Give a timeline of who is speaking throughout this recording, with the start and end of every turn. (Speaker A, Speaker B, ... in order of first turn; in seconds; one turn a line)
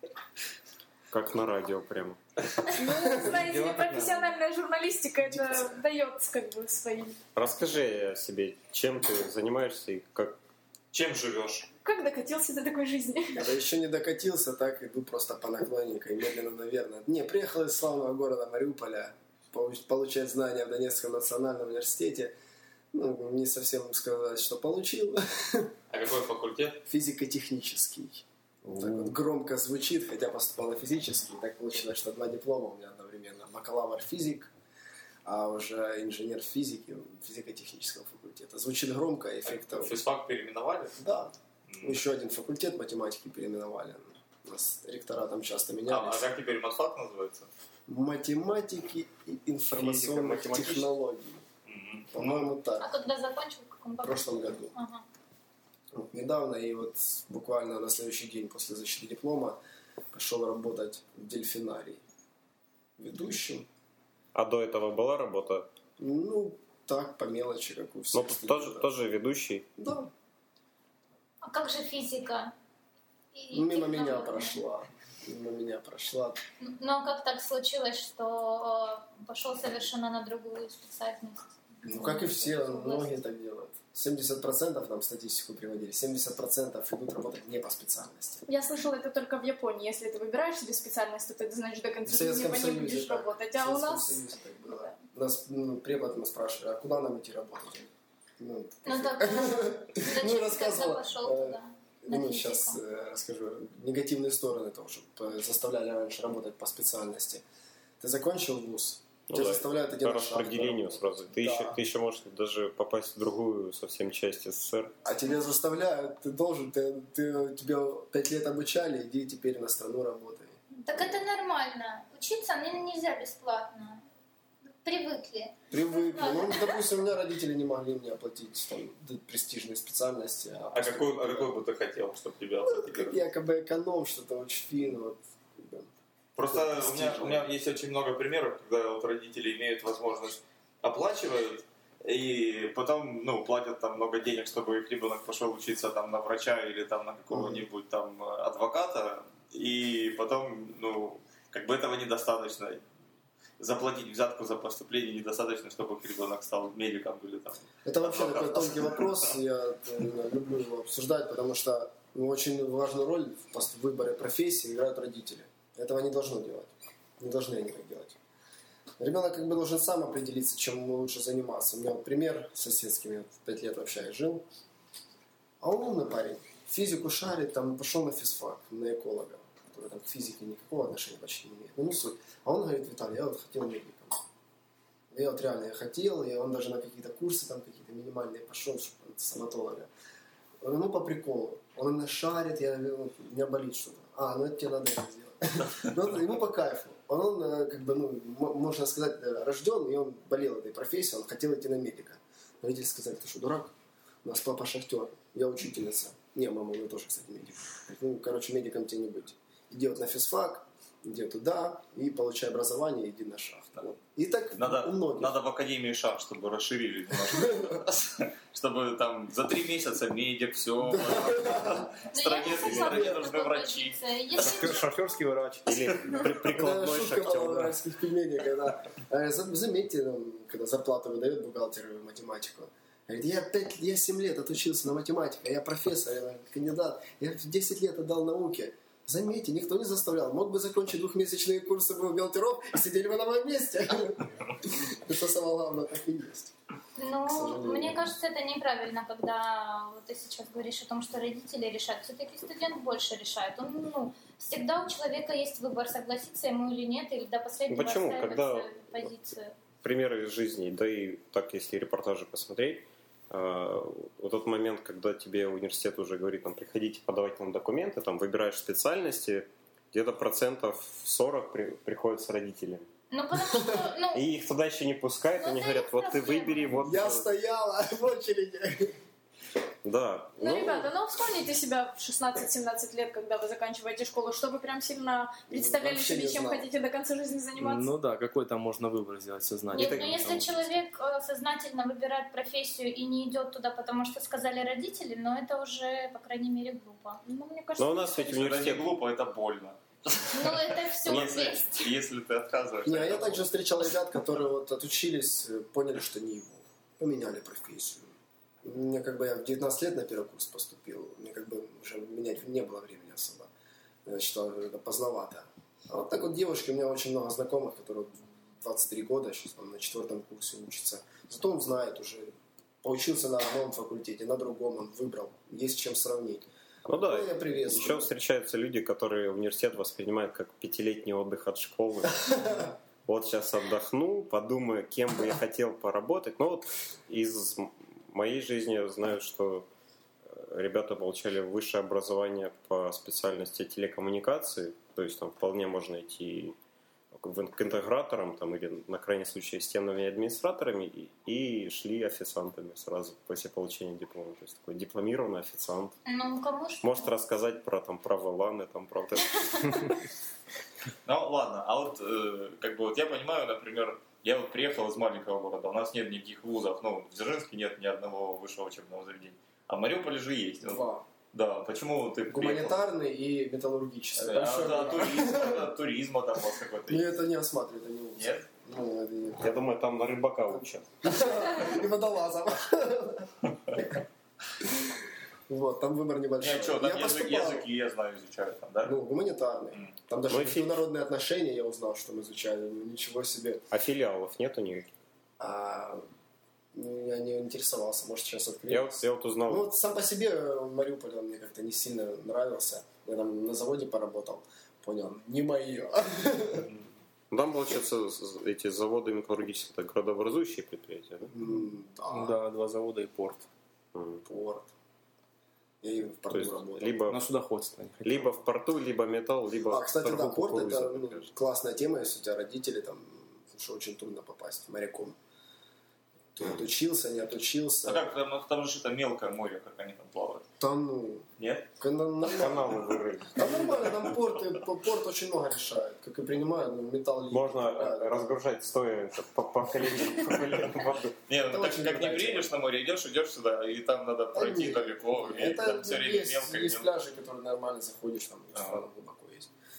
Speaker A: 1.1-2.2
Speaker B: 2.7-7.2
Speaker C: 3.2-4.3
Speaker A: 7.3-10.4
Speaker D: 10.9-11.7
Speaker B: 11.8-13.4
Speaker E: 13.3-22.3
Speaker E: 22.9-25.7
Speaker D: 25.9-26.8
Speaker E: 26.8-28.2
Speaker C: 28.7-29.2
Speaker E: 28.8-34.5
Speaker E: 35.2-40.0
Speaker D: 39.4-41.0
Speaker E: 41.0-46.2
Speaker D: 41.7-42.0
Speaker D: 45.9-47.5
Speaker E: 47.9-51.4
Speaker D: 49.7-50.5
Speaker A: 50.2-50.8
Speaker D: 51.7-52.5
Speaker E: 52.1-52.9
Speaker F: 52.8-55.0
Speaker E: 54.0-54.7
Speaker E: 55.9-59.6
Speaker E: 60.1-62.0
Speaker E: 63.0-63.7
Speaker A: 64.3-65.7
Speaker E: 66.0-68.9
Speaker A: 68.1-69.7
Speaker E: 69.8-70.1
Speaker F: 71.4-72.5
Speaker F: 73.3-74.6
Speaker E: 73.5-76.4
Speaker F: 76.6-83.1
Speaker E: 81.8-88.4
Speaker B: 88.5-94.2
Speaker E: 92.0-107.4
Speaker F: 98.8-102.8
Speaker E: 108.0-111.8
Speaker A: 109.3-114.9
Speaker E: 115.0-120.6
Speaker F: 120.7-124.0
Speaker F: 124.7-126.8
Speaker E: 125.7-131.5
Speaker D: 130.7-133.2
Speaker E: 132.6-135.9
Speaker D: 136.3-152.8
Speaker E: 136.5-137.5
Speaker E: 147.3-147.6
Speaker D: 153.6-159.3
Speaker E: 157.8-168.2
Speaker E: 169.0-174.4
Speaker E: 175.6-184.2
Speaker E: 185.1-189.9
Speaker E: 190.6-215.3
Speaker D: 214.5-224.0
Speaker E: 217.3-217.7
Speaker E: 220.9-221.9
Speaker F: 222.1-225.0
Speaker C: 224.4-227.5
Speaker A: 225.7-227.7
Speaker E: 226.3-246.5
Speaker F: 247.0-259.5
Speaker E: 247.2-248.1
Speaker A: 257.7-258.9
Speaker A: 259.8-272.9
Speaker F: 273.1-274.2
Speaker A: 274.1-277.3
Speaker F: 275.4-276.9
Speaker E: 276.8-278.9
Speaker A: 279.8-280.9
Speaker B: 280.4-287.9
Speaker E: 285.5-286.6
Speaker C: 287.6-290.7
Speaker F: 289.7-297.2
Speaker A: 289.7-290.4
Speaker B: 297.2-298.5
Speaker A: 297.8-298.9
Speaker D: 298.3-303.4
Speaker F: 300.3-301.9
Speaker E: 302.8-308.1
Speaker E: 308.6-313.5
Speaker E: 314.0-322.3
Speaker E: 322.8-328.1
Speaker A: 326.9-339.7
Speaker A: 340.3-346.6
Speaker A: 347.1-355.9
Speaker F: 356.1-356.9
Speaker A: 356.8-359.9
Speaker D: 361.0-372.8
Speaker E: 370.6-371.0
Speaker E: 372.3-375.7
Speaker D: 374.1-377.2
Speaker E: 376.9-379.5
Speaker D: 378.2-378.5
Speaker A: 379.4-380.9
Speaker E: 381.0-384.0
Speaker E: 384.6-384.9
Speaker E: 385.5-387.6
Speaker D: 386.4-389.0
Speaker E: 388.8-393.6
Speaker A: 390.3-390.8
Speaker A: 393.7-394.9
Speaker E: 395.4-396.0
Speaker E: 396.7-406.7
Speaker A: 398.7-399.7
Speaker A: 407.3-411.3
Speaker E: 411.3-412.4
Speaker C: 412.1-413.4
Speaker A: 413.9-414.2
Speaker E: 414.2-414.7
Speaker E: 415.8-417.0
Speaker A: 416.3-417.2
Speaker C: 417.1-418.3
Speaker A: 418.0-421.3
Speaker E: 419.7-425.1
Speaker E: 426.3-428.1
Speaker D: 427.8-430.4
Speaker E: 430.6-432.8
Speaker D: 431.4-431.7
Speaker A: 432.2-434.0
Speaker E: 433.3-438.3
Speaker A: 437.3-441.1
Speaker D: 441.3-447.0
Speaker E: 441.5-442.5
Speaker E: 444.3-449.5
Speaker D: 448.5-448.8